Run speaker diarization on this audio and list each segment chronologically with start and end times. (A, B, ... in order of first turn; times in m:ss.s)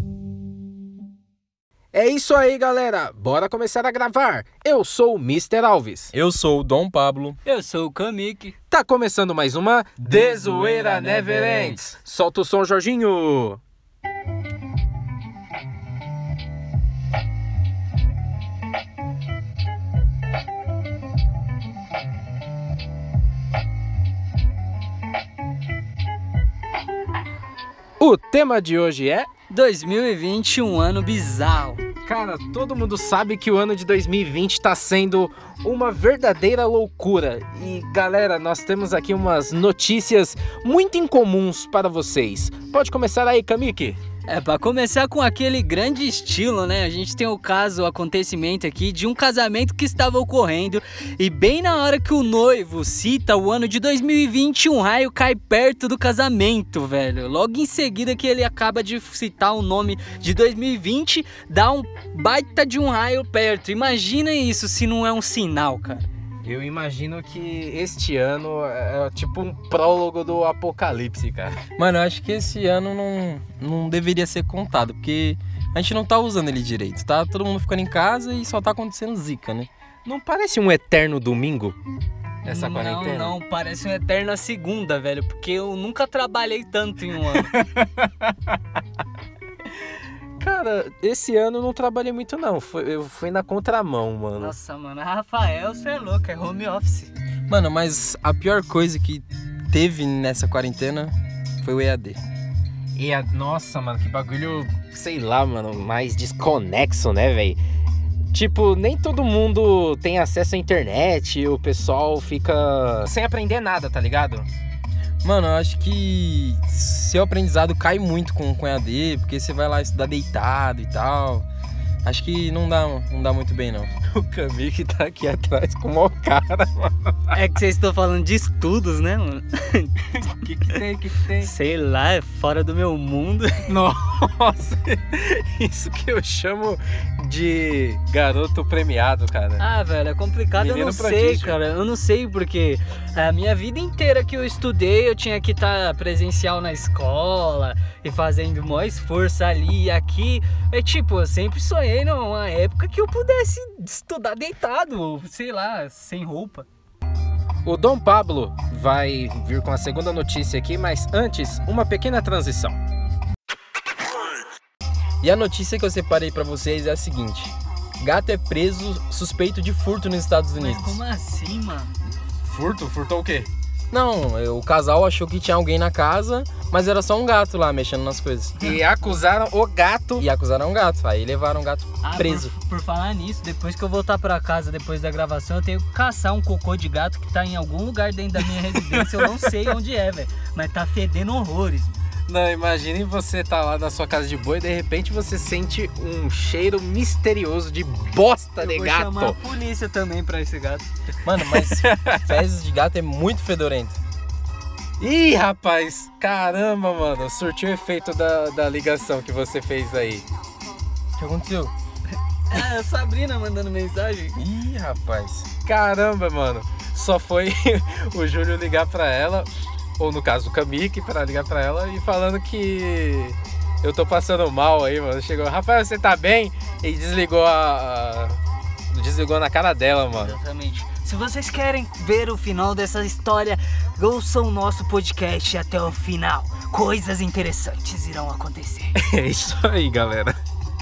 0:01.9-0:06.1 A
0:06.1-0:07.4 B
0:07.4-0:08.6 C
0:08.7-0:13.6 A
0:10.1-0:11.7 C
0:11.2-0:11.8 B
0:28.0-0:29.3 A
0:29.5-0:31.8 C
0:32.0-0:44.0 A
0:44.3-1:06.0 C
1:06.4-1:11.6 A
1:11.8-1:19.7 B
1:20.0-1:21.8 A
1:22.4-1:27.6 C
1:22.4-1:23.4 A
1:27.5-1:28.3 A
1:30.4-1:34.5 A
1:34.4-1:37.1 C
1:37.5-1:42.2 B
1:42.9-1:47.6 A
1:48.3-1:54.5 A
1:55.2-2:01.5 B
2:02.0-2:03.9 B
2:04.1-2:07.4 A
2:07.3-2:09.9 C
2:10.1-2:11.5 A
2:11.4-2:13.7 C
2:13.7-2:19.6 A
2:19.6-2:36.7 C
2:20.6-2:21.5 A
2:37.6-2:42.8 A
2:45.2-2:51.0 B
2:50.6-2:51.9 C
2:52.4-2:53.5 A
2:53.9-2:58.6 B
2:58.6-3:00.3 A
3:00.2-3:02.5 B
3:02.0-3:12.0 C
3:08.9-3:09.3 A
3:12.3-3:19.4 A
3:18.6-3:20.9 C
3:21.2-3:24.0 B
3:21.5-3:22.4 A
3:25.0-3:30.2 A
3:31.2-3:31.7 B
3:32.5-3:34.4 C
3:34.3-3:35.5 B
3:35.6-3:39.5 A
3:40.0-3:48.4 A
3:48.9-3:50.4 A
3:50.2-3:59.0 C
3:59.0-4:00.4 A